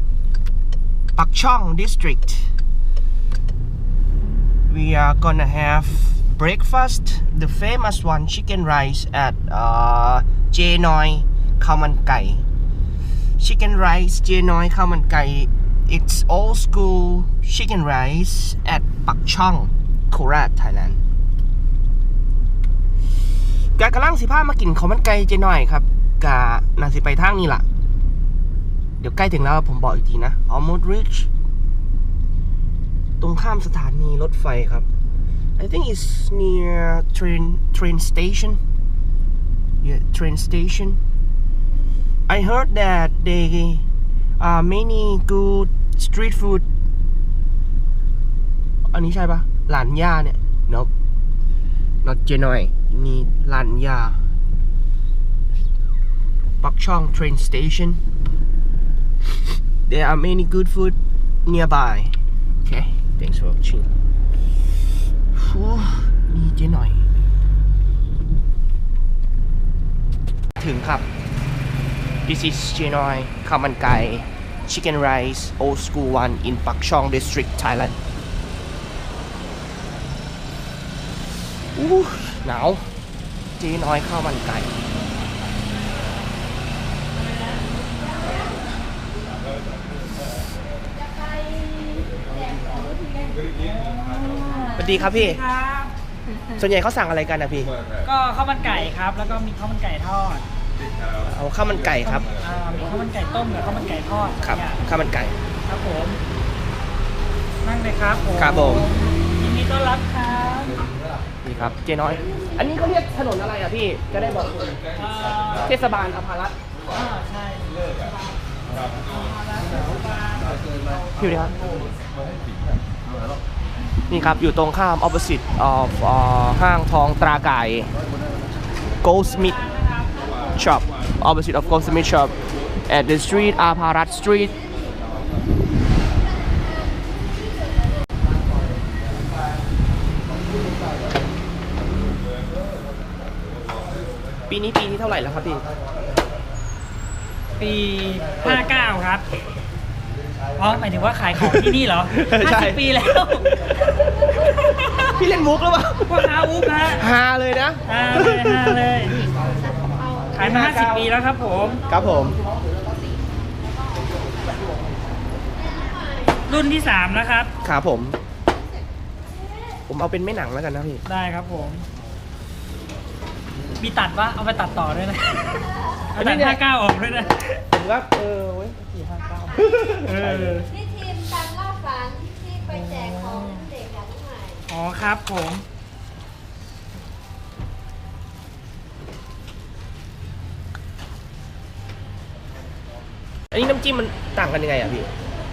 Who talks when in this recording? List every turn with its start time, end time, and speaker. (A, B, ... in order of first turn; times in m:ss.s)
0:01.2-0:02.5 A
0:04.7-0:12.4 A
0:13.4-0:21.0 A
0:23.8-0:27.6 A
0:29.0-0:31.3 A
0:33.2-0:34.9 A
0:35.6-0:38.6 A
0:39.8-0:41.0 A
0:42.3-0:43.8 A
0:44.4-0:46.6 A
0:48.9-0:50.9 A
0:52.0-0:54.2 A
0:56.6-0:58.0 A
0:59.9-1:03.9 A
1:05.3-1:07.1 A
1:10.6-1:11.1 A
1:12.3-1:18.0 A
1:21.8-1:22.9 A
1:23.6-1:24.8 A
1:33.5-1:35.9 B
1:34.8-1:35.4 A
1:36.6-1:37.8 A
1:38.0-1:40.5 B
1:41.2-1:42.3 A
1:42.1-1:44.8 B
1:44.4-1:45.4 A
1:45.7-1:46.2 B
1:47.6-1:50.8 B
1:48.4-1:49.0 A
1:51.4-1:54.8 A
1:55.0-1:55.7 B
1:55.5-1:56.6 A
1:56.9-1:57.8 B
1:59.1-2:00.6 B
2:01.2-2:01.6 A
2:04.1-2:07.9 A
2:09.0-2:09.6 A
2:09.4-2:10.6 B
2:10.6-2:12.4 A
2:12.9-2:14.6 A
2:24.5-2:25.7 A
2:27.6-2:29.2 B
2:30.6-2:33.7 B
2:31.4-2:32.8 A
2:34.2-2:36.2 A
2:36.1-2:37.1 B
2:36.9-2:39.2 A
2:37.9-2:39.2 B
2:40.3-2:41.8 B
2:40.3-2:41.1 A
2:41.8-2:42.4 A
2:46.5-2:47.5 B
2:47.6-2:48.2 A
2:49.9-2:51.0 A
2:51.1-2:51.9 B
2:53.8-2:57.6 B
2:56.2-2:56.6 A
2:57.7-3:00.6 A
3:00.0-3:00.7 B
3:01.0-3:02.4 C
3:02.6-3:03.7 B
3:03.8-3:04.4 C
3:04.7-3:05.6 B
3:13.5-3:15.1 A